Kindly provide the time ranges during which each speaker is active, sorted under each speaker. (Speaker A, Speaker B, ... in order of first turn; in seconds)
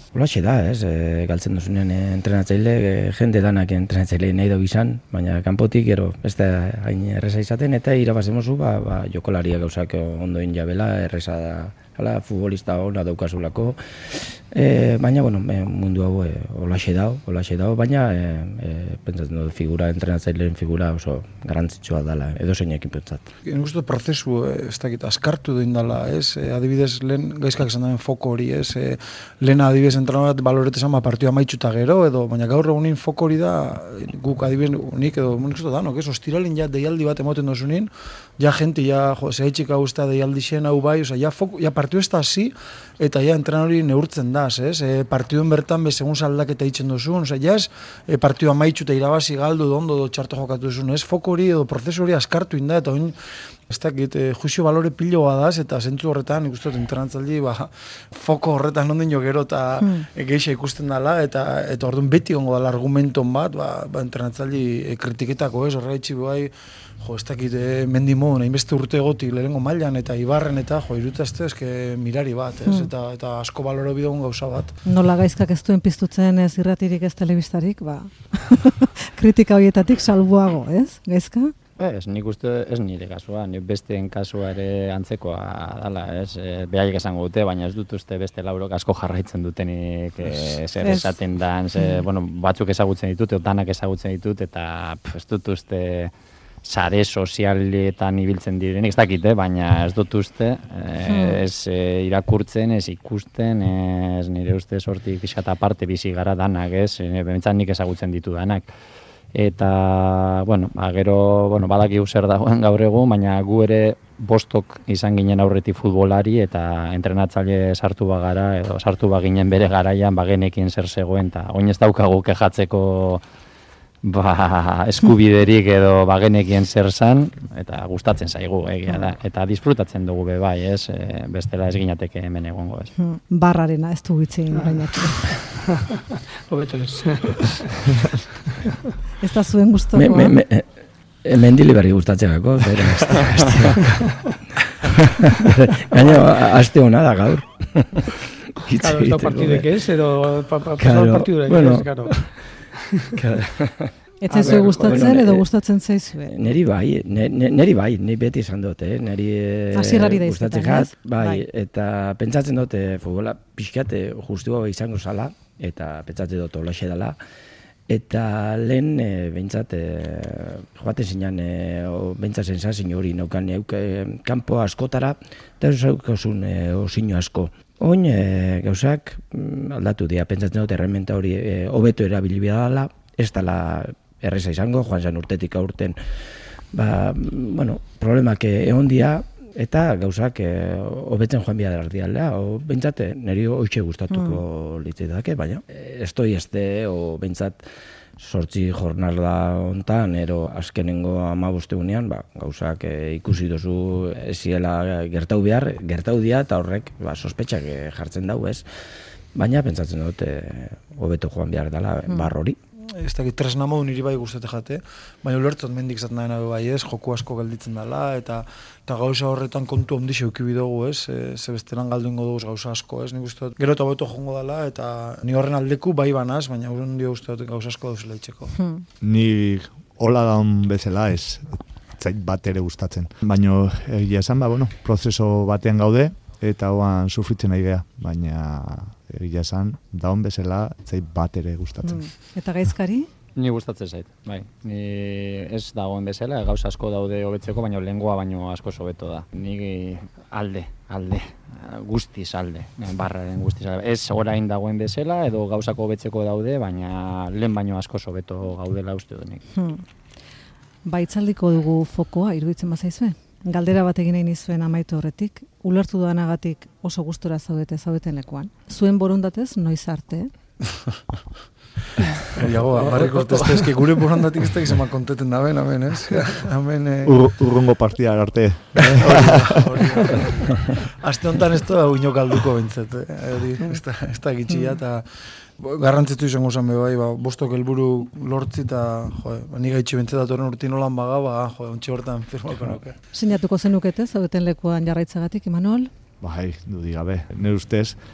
Speaker A: 0.1-23.3, 139.9-140.7, 141.2-144.0, 144.7-149.8, 150.8-152.3, 153.2-155.5, 156.3-167.2, 167.9-186.2, 186.7-197.7, 198.2-208.7, 209.3-212.6
Speaker B: 23.4-53.2, 53.7-74.8, 212.8-228.5, 272.4-277.2, 278.9-292.9
Speaker C: 59.8-60.1, 74.9-81.5, 90.8-91.1, 101.1-101.4, 133.0-135.3, 139.2-140.3, 154.2-156.3, 159.7-161.4, 194.1-194.4, 228.6-228.8, 241.8-243.1, 259.5-259.8, 260.9-270.3, 293.1-295.9
Speaker D: 81.8-96.1, 96.7-108.7, 109.3-123.2, 124.0-132.9, 243.4-259.4
Speaker E: 135.2-137.7, 148.8-152.3, 154.3-155.1, 272.8-273.7
Speaker F: 229.0-242.1, 277.1-280.3, 296.2-298.0